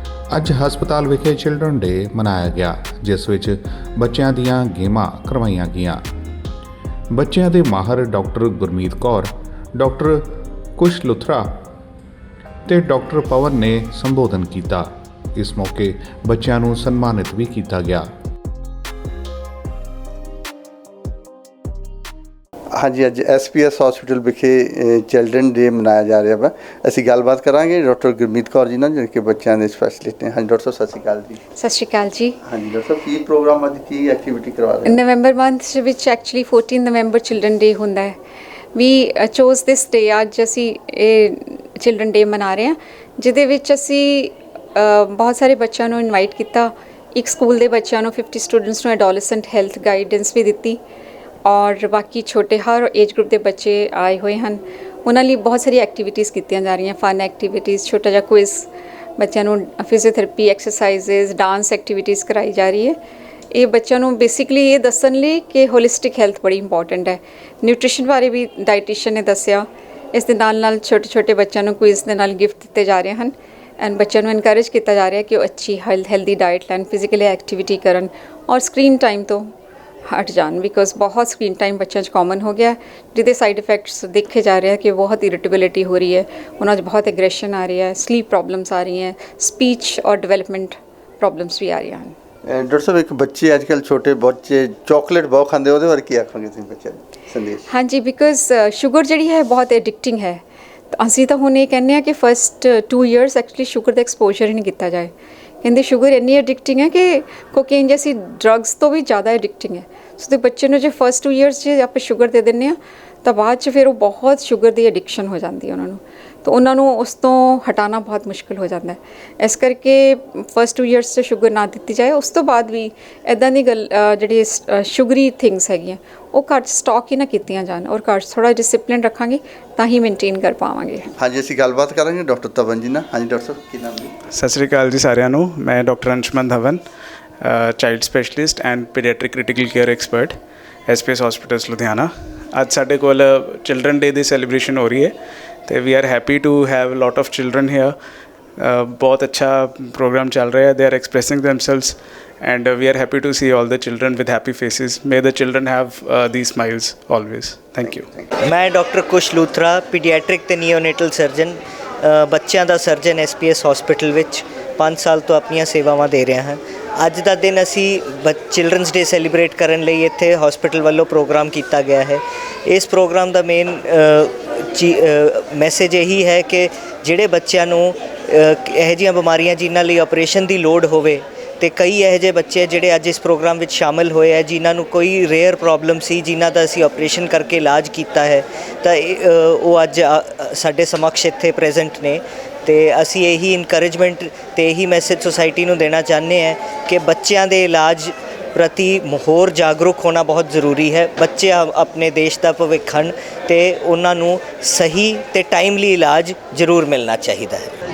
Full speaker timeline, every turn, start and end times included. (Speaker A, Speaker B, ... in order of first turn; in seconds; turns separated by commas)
Speaker A: 0.3-6.0, Speaker A: 7.1-11.6, Speaker A: 12.7-18.1, Speaker B: 22.7-31.4, Speaker C: 31.6-32.4, Speaker B: 32.4-35.0, Speaker C: 34.8-38.2, Speaker C: 38.7-50.8, Speaker C: 51.4-63.0, Speaker C: 63.5-79.5, Speaker C: 80.1-92.1, Speaker B: 92.5-97.7, Speaker C: 97.7-105.1, Speaker C: 105.6-131.1, Speaker B: 131.2-134.1, Speaker D: 134.3-136.8, Speaker D: 137.4-145.1, Speaker D: 145.7-147.9, Speaker D: 148.6-158.1, Speaker E: 158.4-207.7